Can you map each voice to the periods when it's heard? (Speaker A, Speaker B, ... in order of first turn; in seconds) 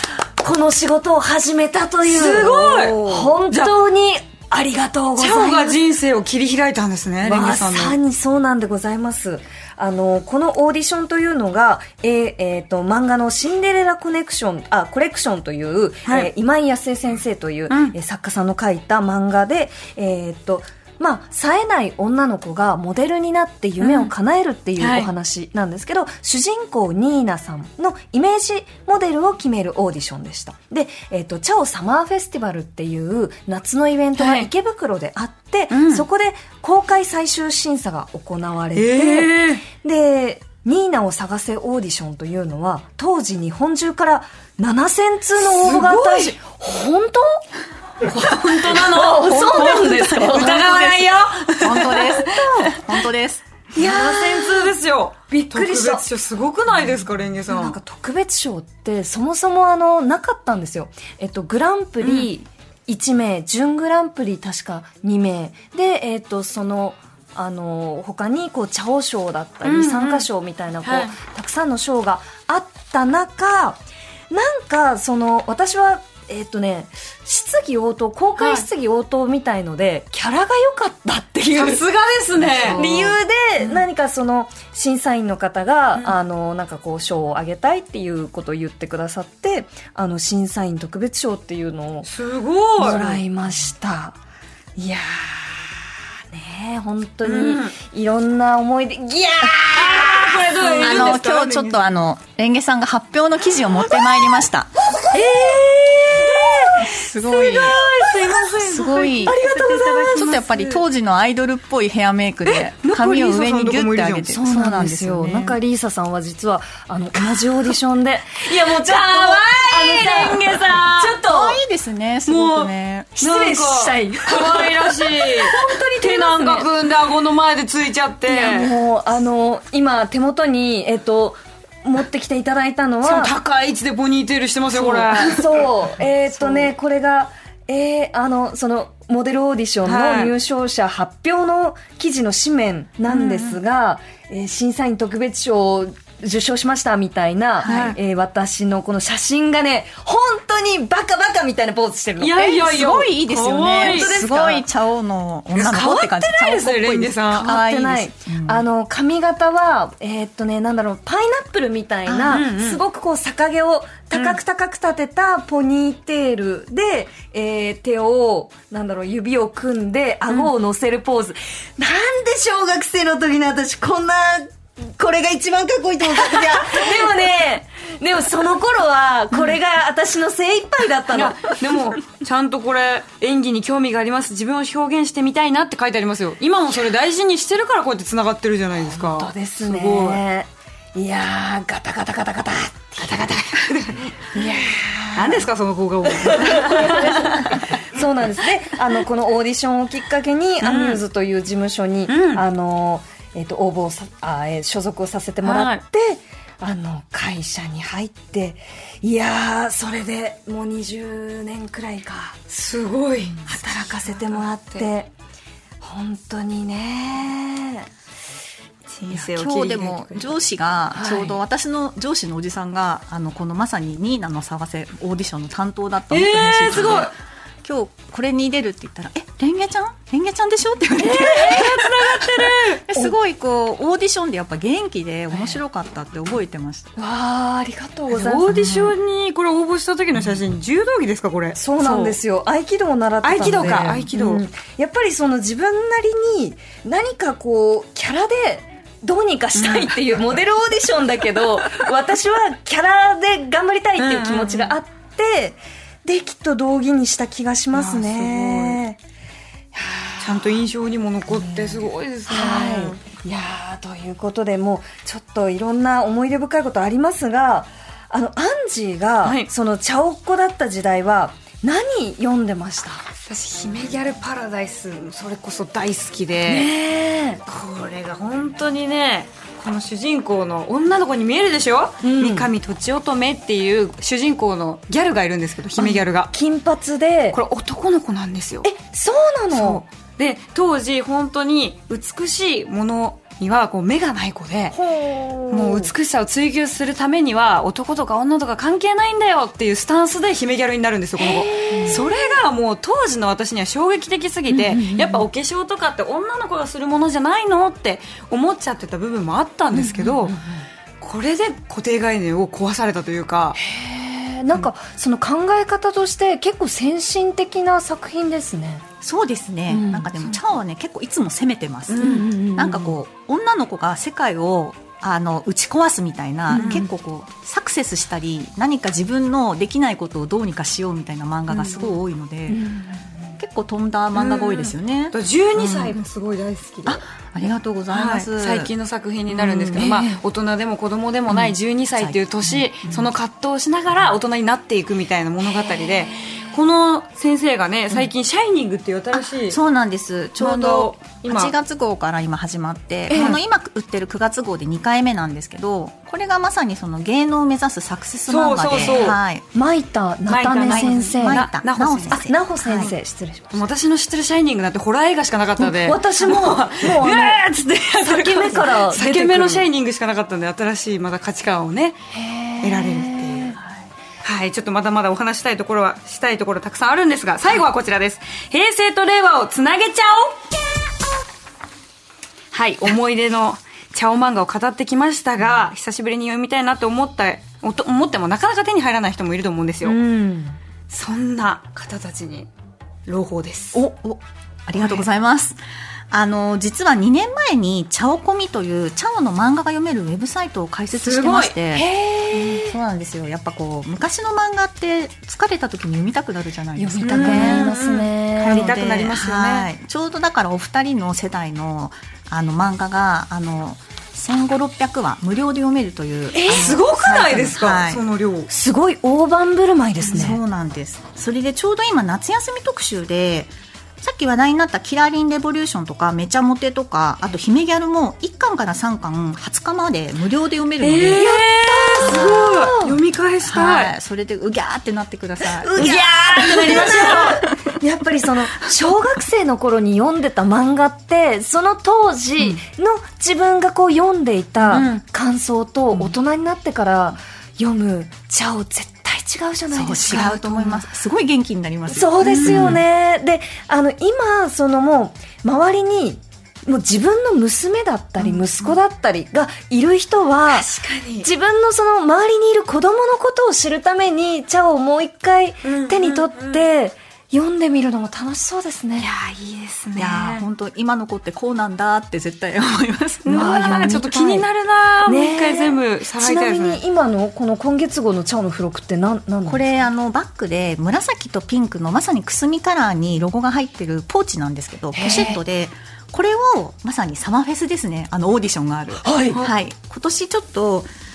Speaker A: 0.4-5.8, 7.2-47.4, 48.2-50.6, 52.2-52.8, 53.8-54.7, 55.3-56.1, 57.5-73.8, 74.3-81.8, 82.5-92.1, 92.8-94.2, 94.8-101.3, 105.0-106.9, 107.7-108.5, 109.4-109.9, 114.3-121.6, 123.2-126.7, 128.3-133.3, 134.7-152.5, 153.8-154.7, 157.4-181.6, 188.9-193.7, 194.3-195.5, 196.2-212.4, 213.3-215.1, 215.8-217.9, 220.9-221.3, 231.0-231.8, 237.0-238.9, 241.6-259.0, 259.8-260.6, 261.3-273.0, 276.4-277.4, 282.0-282.5, 285.8-287.4, 288.6-289.8, 294.7-295.9, 301.2-302.1, 304.5-305.3, 309.7-310.6, 313.6-318.9, 319.7-320.1, 322.0-323.0, 326.5-326.9, 332.5-333.1, 339.8-340.2, 345.9-346.5, 353.1-353.4, 358.8-361.5, 362.1-363.7, 365.6-367.4, 368.0-369.7, 372.1-373.6, 389.8-390.6, 401.9-402.7, 406.8-408.7, 416.3-416.8, 418.5-420.4, 431.1-433.0, 435.6-450.8, 451.9-460.7, 461.2-469.1, 473.3-474.5, 475.1-479.8, 484.9-485.4, 489.0-489.4
Speaker B: 2.0-3.7, 5.2-8.0, 17.7-17.9, 23.8-24.1, 24.8-25.1, 34.2-34.5, 35.7-36.1, 38.8-39.6, 45.4-46.4, 48.0-52.8, 53.8-57.8, 62.0-62.3, 69.6-70.3, 70.8-71.1, 78.4-78.7, 81.5-83.8, 92.0-93.2, 97.2-97.8, 99.7-101.8, 105.1-110.8, 112.5-114.3, 118.5-121.2, 122.3-128.7, 133.0-136.7, 139.8-140.3, 143.1-143.6, 147.6-148.0, 152.2-154.1, 155.6-157.5, 162.1-162.8, 164.1-164.4, 176.1-177.0, 181.1-190.2, 193.1-194.4, 195.2-197.7, 200.6-201.0, 202.1-202.4, 205.4-205.8, 212.5-214.9, 218.9-220.3, 226.1-227.1, 231.1-232.8, 238.1-242.2, 243.2-244.4, 249.6-249.9, 254.0-254.8, 257.7-258.8, 260.2-263.0, 269.2-269.5, 273.2-276.7, 277.5-286.3, 287.3-288.7, 289.5-294.8, 295.5-310.4, 311.0-313.6, 321.9-322.3, 326.5-326.9, 331.5-332.0, 334.1-337.0, 337.9-349.6, 350.4-351.5, 353.1-353.4, 358.3-359.2, 360.3-362.2, 363.5-372.0, 372.6-373.6, 374.2-380.4, 382.5-390.0, 390.9-392.5, 393.1-393.8, 394.8-395.0, 400.9-402.6, 407.0-409.7, 416.4-418.5, 430.8-433.9, 435.8-437.4, 444.7-445.0, 452.2-452.8, 458.2-458.8, 460.5-461.3, 465.6-466.6, 469.0-470.5, 473.2-476.8
Speaker C: 49.4-53.4, 100.8-104.7, 106.7-107.8, 108.5-115.6, 121.2-123.2, 147.6-148.0, 152.3-158.6, 219.1-236.9, 319.0-332.7, 333.4-336.0, 336.9-338.7, 339.3-340.0, 341.3-343.1, 349.1-359.4, 360.6-362.9, 393.7-407.8, 408.4-418.0, 420.0-431.3, 432.0-432.5, 433.4-437.6, 449.7-452.8, 470.0-474.0, 479.5-490.9